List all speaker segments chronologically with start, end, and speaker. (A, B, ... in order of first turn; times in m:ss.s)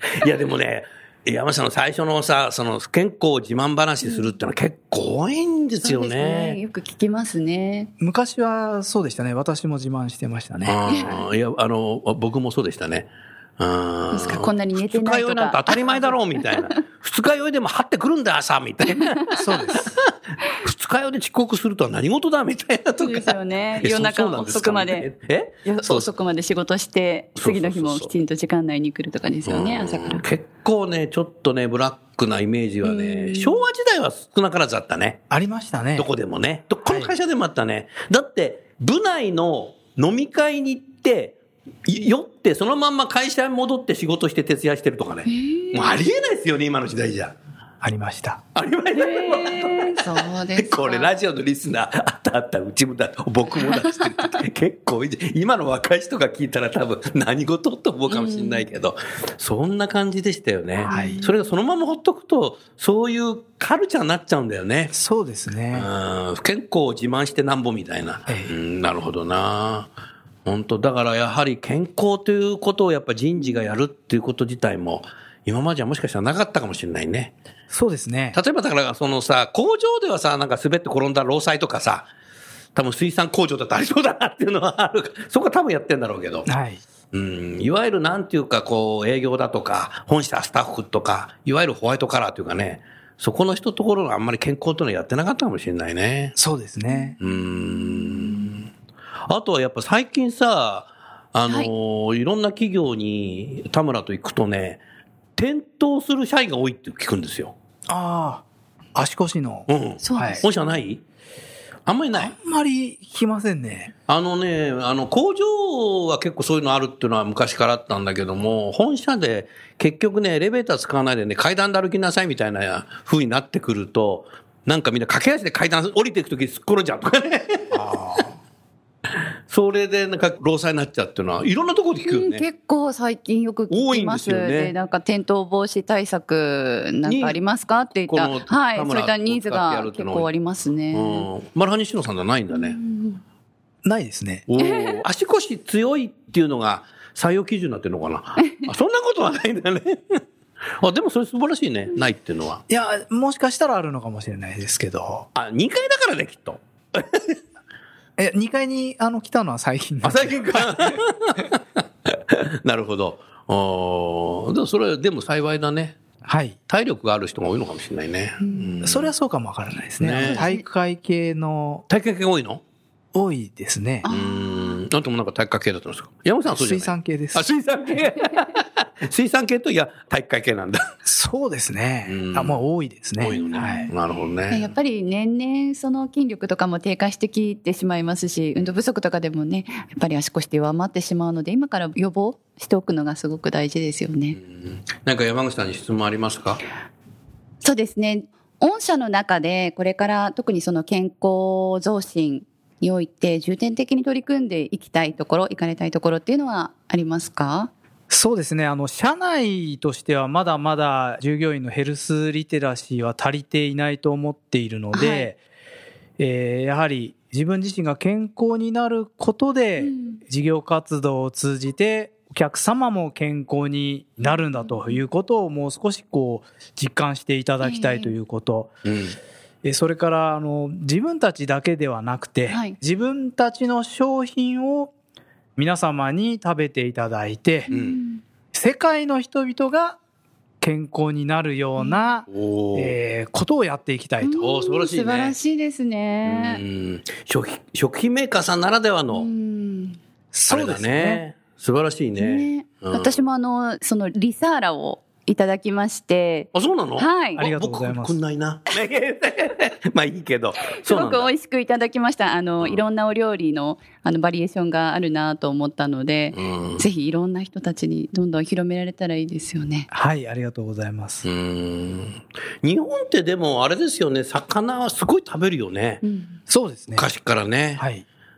0:00.2-0:06.6 A
0:04.0-0:04.3 B
0:05.8-0:07.9 B
0:08.0-0:11.2 C
0:10.6-0:26.1 A
0:10.9-0:11.2 B
0:14.1-0:16.7 B
0:19.3-0:20.0 C
0:23.0-0:25.1 B
0:25.6-0:30.2 B
0:27.4-0:28.1 A
0:29.4-0:35.2 A
0:32.8-0:33.6 B
0:35.3-0:36.1 C
0:36.0-0:47.3 A
0:36.8-0:37.1 C
0:45.2-0:46.0 B
0:47.8-0:48.4 C
0:48.5-1:04.9 A
0:48.9-0:51.1 B
0:53.6-0:54.2 B
0:58.1-0:58.6 B
1:00.8-1:01.5 B
1:00.9-1:01.2 C
1:04.9-1:05.9 C
1:05.7-1:09.9 A
1:08.3-1:08.5 C
1:10.4-1:17.3 A
1:17.7-1:18.4 C
1:18.3-1:22.1 A
1:22.7-1:26.5 A
1:26.4-1:26.8 C
1:27.1-1:36.4 A
1:36.4-1:37.1 C
1:36.9-1:37.2 B
1:37.2-1:38.7 A
1:37.8-1:38.5 B
1:39.3-1:44.8 A
1:45.4-1:47.5 A
1:47.9-1:48.4 C
1:48.9-1:50.4 C
1:49.7-1:51.0 A
1:50.0-1:50.5 B
1:51.8-1:52.3 A
1:52.1-1:53.9 C
1:54.1-2:07.9 A
2:07.7-2:08.3 C
2:09.5-2:12.4 A
2:12.0-2:21.3 B
2:13.7-2:14.7 A
2:17.0-2:17.4 A
2:18.1-2:20.3 A
2:20.9-2:22.8 A
2:22.5-2:23.2 B
2:23.8-2:24.4 C
2:24.5-2:30.2 A
2:24.6-2:25.0 B
2:30.8-2:32.6 A
2:32.7-2:35.3 C
2:35.4-2:37.4 A
2:38.2-2:41.0 C
2:40.0-2:46.0 A
2:46.2-2:46.6 C
2:46.7-2:49.1 A
2:48.4-2:48.7 B
2:48.8-2:51.8 C
2:50.0-2:50.4 A
2:50.3-2:50.6 B
2:51.9-2:52.6 A
2:53.1-2:54.1 C
2:54.0-2:54.8 B
2:54.1-3:00.8 A
2:56.4-2:57.4 C
3:01.0-3:03.9 C
3:02.1-3:02.6 A
3:03.2-3:04.7 A
3:03.3-3:03.9 B
3:04.5-3:14.4 B
3:14.3-3:16.6 A
3:17.6-3:27.7 B
3:28.1-3:35.4 C
3:34.9-3:35.3 B
3:36.2-3:48.7 C
3:39.8-3:40.2 B
3:44.2-3:45.0 B
3:47.6-3:48.1 B
3:48.8-3:49.2 A
3:49.6-3:54.9 C
3:52.5-3:52.8 B
3:55.6-3:57.7 C
3:57.7-3:58.2 B
3:57.7-3:58.0 A
3:58.5-4:00.0 C
4:00.6-4:04.4 C
4:01.8-4:02.1 B
4:02.3-4:03.0 A
4:04.2-4:06.6 B
4:04.4-4:05.4 A
4:06.2-4:09.3 A
4:09.1-4:10.0 B
4:10.3-4:11.2 C
4:10.5-4:13.2 A
4:12.2-4:17.5 B
4:16.5-4:21.3 A
4:17.4-4:18.2 C
4:20.7-4:29.9 B
4:26.3-4:26.8 A
4:29.9-4:31.2 C
4:31.2-4:36.0 A
4:36.0-4:36.4 B
4:36.5-4:37.0 C
4:37.0-4:37.8 A
4:37.8-4:38.0 C